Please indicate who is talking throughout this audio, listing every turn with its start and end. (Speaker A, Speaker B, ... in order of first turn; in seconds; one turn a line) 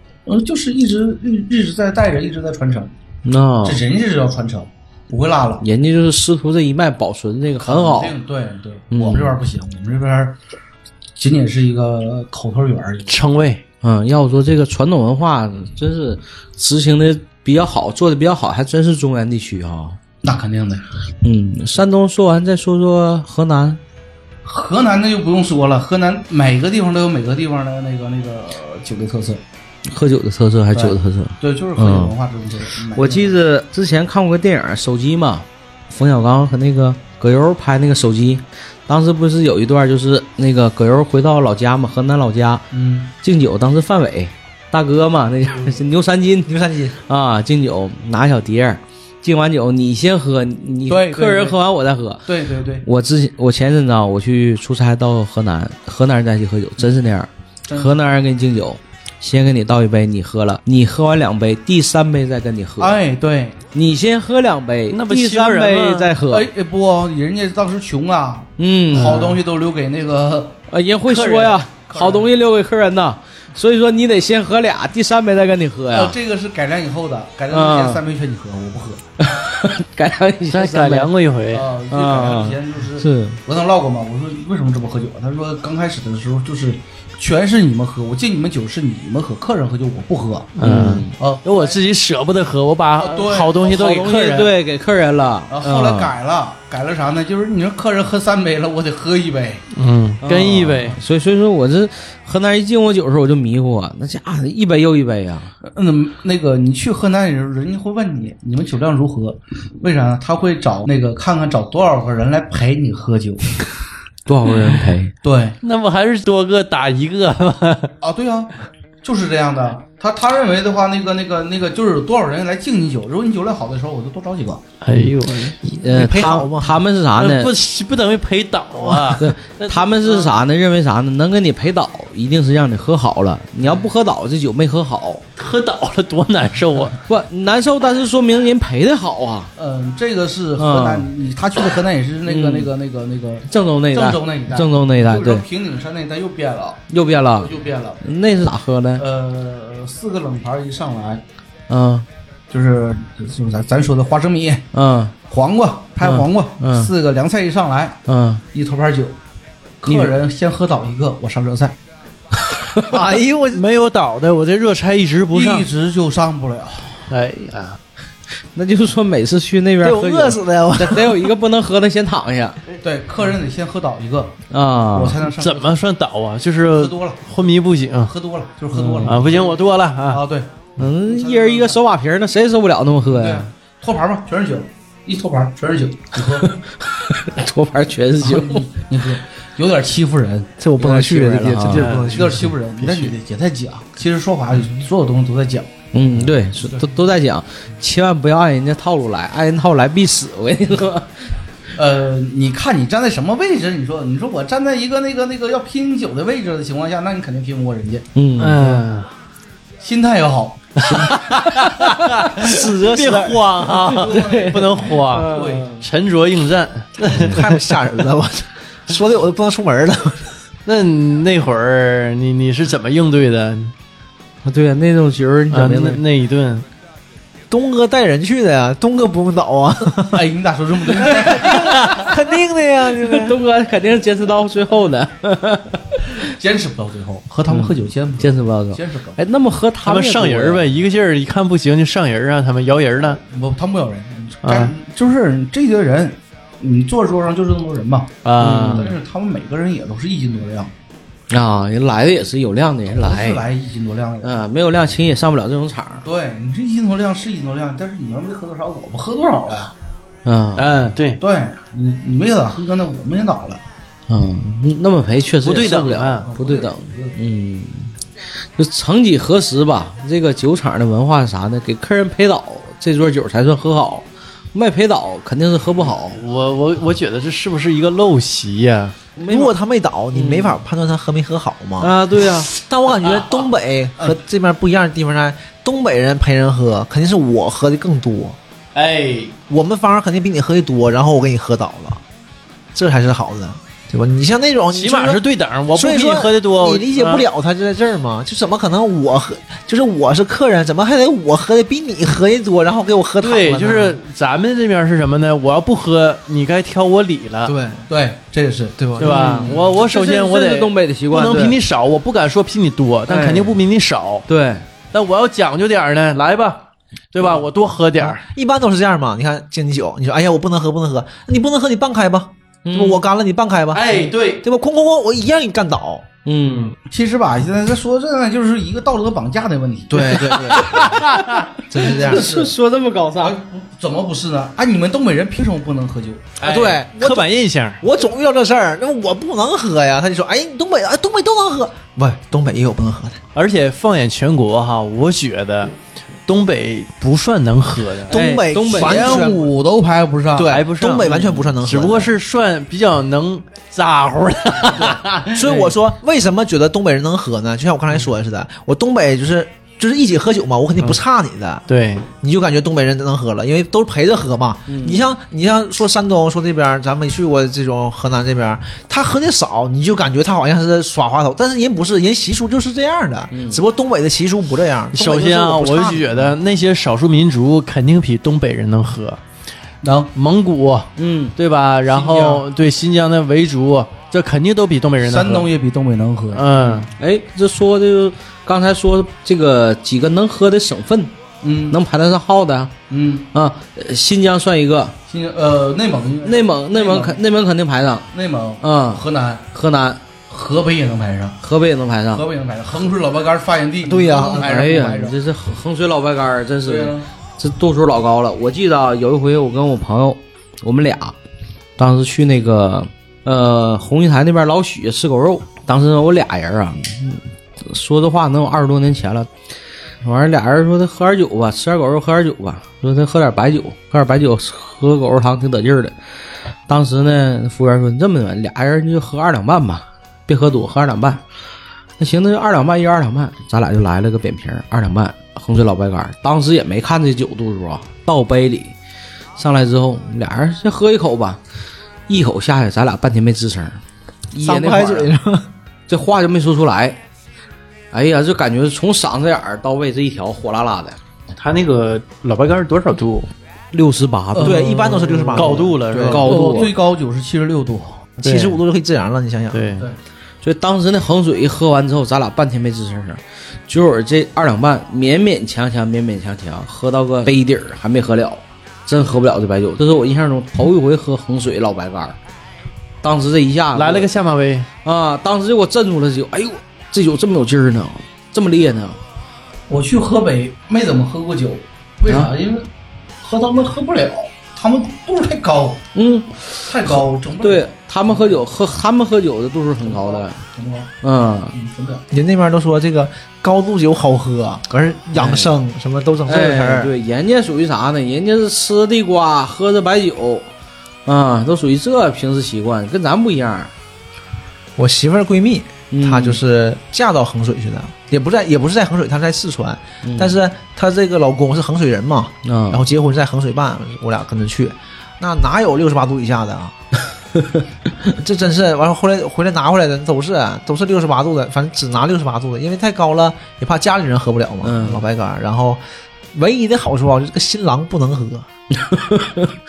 Speaker A: 0.3-2.9
Speaker B: 3.2-3.8
Speaker A: 3.6-5.7
Speaker B: 5.6-8.2
Speaker A: 7.6-10.4
Speaker B: 8.9-9.3
Speaker A: 11.2-13.2
Speaker C: 13.1-13.6
Speaker B: 13.8-20.0
Speaker A: 20.2-20.9
Speaker B: 21.2-23.8
Speaker A: 24.4-29.4
Speaker B: 29.9-32.1
Speaker A: 30.7-33.4
Speaker B: 32.9-42.7
Speaker A: 42.7-43.1
Speaker B: 43.2-52.3
Speaker D: 46.5-47.0
Speaker A: 50.9-51.6
Speaker A: 52.3-52.9
Speaker B: 52.8-63.0
Speaker A: 57.7-58.0
Speaker A: 62.8-63.6
Speaker B: 63.7-66.5
Speaker C: 64.9-66.1
Speaker A: 66.3-72.3
Speaker B: 68.6-69.3
Speaker C: 69.0-69.4
Speaker B: 70.7-76.2
Speaker C: 71.1-71.5
Speaker A: 75.9-79.0
Speaker B: 77.5-78.0
Speaker B: 79.2-81.1
Speaker C: 80.5-81.7
Speaker A: 81.5-90.5
Speaker B: 81.9-83.4
Speaker C: 90.6-94.5
Speaker B: 90.6-91.1
Speaker A: 91.2-91.8
Speaker A: 93.0-94.2
Speaker B: 93.6-96.1
Speaker A: 95.5-99.7
Speaker C: 99.7-101.0
Speaker B: 100.2-105.5
Speaker A: 105.6-113.6
Speaker B: 114.3-115.1
Speaker A: 115.2-115.6
Speaker C: 115.6-117.9
Speaker A: 118.0-118.5
Speaker A: 119.0-124.7
Speaker C: 124.8-125.8
Speaker B: 125.8-127.5
Speaker D: 125.9-126.8
Speaker C: 127.2-130.3
Speaker B: 128.8-135.2
Speaker C: 135.4-137.0
Speaker B: 137.1-139.5
Speaker A: 139.6-148.0
Speaker B: 140.6-141.1
Speaker B: 142.3-142.7
Speaker B: 143.5-145.4
Speaker B: 146.9-149.1
Speaker A: 149.0-151.2
Speaker B: 151.7-152.1
Speaker A: 152.5-154.7
Speaker B: 154.7-155.2
Speaker A: 155.3-158.0
Speaker B: 156.0-156.9
Speaker B: 158.1-158.4
Speaker A: 158.5-159.2
Speaker A: 159.8-161.8
Speaker B: 159.9-160.1
Speaker B: 162.5-162.9
Speaker D: 162.8-163.6
Speaker C: 163.5-165.7
Speaker A: 165.3-167.1
Speaker C: 167.1-167.8
Speaker B: 168.6-172.6
Speaker D: 169.8-171.3
Speaker A: 172.8-174.4
Speaker B: 174.5-175.2
Speaker A: 174.9-175.8
Speaker C: 175.3-178.1
Speaker A: 176.7-177.2
Speaker A: 178.1-181.8
Speaker C: 178.8-180.2
Speaker B: 180.8-183.5
Speaker A: 183.1-186.5
Speaker B: 186.2-188.7
Speaker A: 188.2-190.5
Speaker D: 190.6-193.1
Speaker B: 190.8-192.0
Speaker C: 191.7-192.3
Speaker A: 192.1-195.7
Speaker B: 195.9-201.2
Speaker A: 196.6-196.9
Speaker A: 201.8-208.1
Speaker B: 208.2-208.7
Speaker C: 208.4-209.1
Speaker A: 209.8-211.1
Speaker C: 210.8-217.7
Speaker B: 210.8-213.2
Speaker D: 212.4-213.4
Speaker B: 213.7-215.8
Speaker A: 213.8-215.7
Speaker D: 217.0-220.3
Speaker C: 220.7-223.7
Speaker B: 224.4-226.0
Speaker C: 225.5-226.7
Speaker D: 227.5-230.3
Speaker A: 230.1-231.9
Speaker D: 231.0-233.4
Speaker B: 232.9-236.3
Speaker A: 236.2-239.2
Speaker B: 237.5-240.7
Speaker C: 239.8-243.2
Speaker A: 243.2-250.7
Speaker C: 244.4-244.7
Speaker C: 248.2-248.9
Speaker B: 248.4-248.9
Speaker B: 251.3-253.4
Speaker A: 252.9-254.4
Speaker B: 254.2-256.0
Speaker A: 256.0-259.7
Speaker B: 260.2-260.7
Speaker C: 260.6-261.2
Speaker A: 261.2-263.6
Speaker B: 264.1-267.9
Speaker C: 265.4-266.3
Speaker A: 266.2-267.2
Speaker B: 268.6-276.2
Speaker C: 276.1-279.0
Speaker B: 279.2-279.5
Speaker D: 279.3-281.9
Speaker B: 280.1-280.6
Speaker B: 281.8-282.5
Speaker D: 282.5-288.4
Speaker C: 283.0-283.5
Speaker C: 288.8-289.4
Speaker D: 289.5-292.0
Speaker D: 292.7-295.2
Speaker C: 294.7-297.3
Speaker D: 295.7-304.0
Speaker C: 303.2-307.6
Speaker D: 307.4-307.9
Speaker A: 307.9-308.8
Speaker D: 308.8-309.4
Speaker C: 309.0-314.3
Speaker B: 309.0-311.6
Speaker B: 313.1-313.6
Speaker B: 314.3-314.7
Speaker C: 314.9-318.2
Speaker D: 318.0-326.1
Speaker B: 322.6-323.1
Speaker C: 323.7-324.4
Speaker B: 326.3-326.7
Speaker A: 326.9-330.4
Speaker D: 329.9-331.0
Speaker B: 330.0-333.4
Speaker C: 330.9-331.5
Speaker D: 331.7-332.3
Speaker A: 331.9-332.6
Speaker A: 333.2-336.3
Speaker C: 336.4-337.8
Speaker D: 336.4-337.3
Speaker D: 337.8-343.2
Speaker C: 343.4-348.1
Speaker B: 348.1-349.3
Speaker D: 348.1-349.5
Speaker A: 348.7-350.6
Speaker D: 350.3-352.1
Speaker C: 350.5-355.8
Speaker D: 355.3-361.6
Speaker C: 361.7-362.1
Speaker D: 362.2-376.4
Speaker B: 364.7-365.0
Speaker B: 373.3-373.6
Speaker C: 374.9-379.2
Speaker A: 379.8-380.1
Speaker C: 380.1-385.5
Speaker B: 381.0-381.4
Speaker A: 381.9-382.5
Speaker A: 385.0-386.9
Speaker C: 386.3-386.9
Speaker B: 387.0-391.1
Speaker A: 391.4-391.8
Speaker B: 391.7-392.7
Speaker A: 392.9-393.3
Speaker B: 393.3-395.0
Speaker A: 395.1-397.2
Speaker B: 396.2-398.1
Speaker A: 398.1-399.5
Speaker B: 398.6-399.0
Speaker B: 399.5-400.0
Speaker A: 400.3-401.4
Speaker B: 401.4-402.2
Speaker A: 402.1-405.2
Speaker D: 403.8-404.6
Speaker B: 404.4-411.2
Speaker A: 406.6-407.1
Speaker B: 411.8-419.3
Speaker B: 420.0-426.0
Speaker B: 426.7-431.2
Speaker B: 432.0-438.8
Speaker B: 439.4-441.4
Speaker B: 442.1-443.8
Speaker B: 444.3-445.1
Speaker D: 444.4-445.5
Speaker B: 445.9-447.0
Speaker B: 447.9-451.0
Speaker C: 451.4-453.3
Speaker B: 453.7-454.7
Speaker A: 454.3-458.1
Speaker D: 454.4-455.8
Speaker C: 454.7-456.6
Speaker B: 456.0-456.7
Speaker D: 458.2-459.8
Speaker C: 458.2-458.6
Speaker C: 459.5-459.9
Speaker B: 460.4-472.2
Speaker B: 473.0-474.1
Speaker C: 473.8-474.7
Speaker B: 474.8-479.0
Speaker A: 479.7-482.7
Speaker B: 482.1-482.3
Speaker A: 483.2-485.8
Speaker B: 485.9-490.4
Speaker A: 486.6-488.5
Speaker A: 489.8-490.9
Speaker B: 491.0-491.6
Speaker A: 491.5-492.1
Speaker D: 492.1-496.9
Speaker B: 495.1-495.6
Speaker B: 496.3-500.5
Speaker B: 501.1-503.7
Speaker D: 504.8-516.8
Speaker B: 505.9-506.4
Speaker B: 510.0-510.4
Speaker B: 512.4-512.8
Speaker B: 517.4-517.7
Speaker D: 518.2-525.8
Speaker B: 524.6-525.0
Speaker D: 526.3-528.5
Speaker B: 528.8-529.5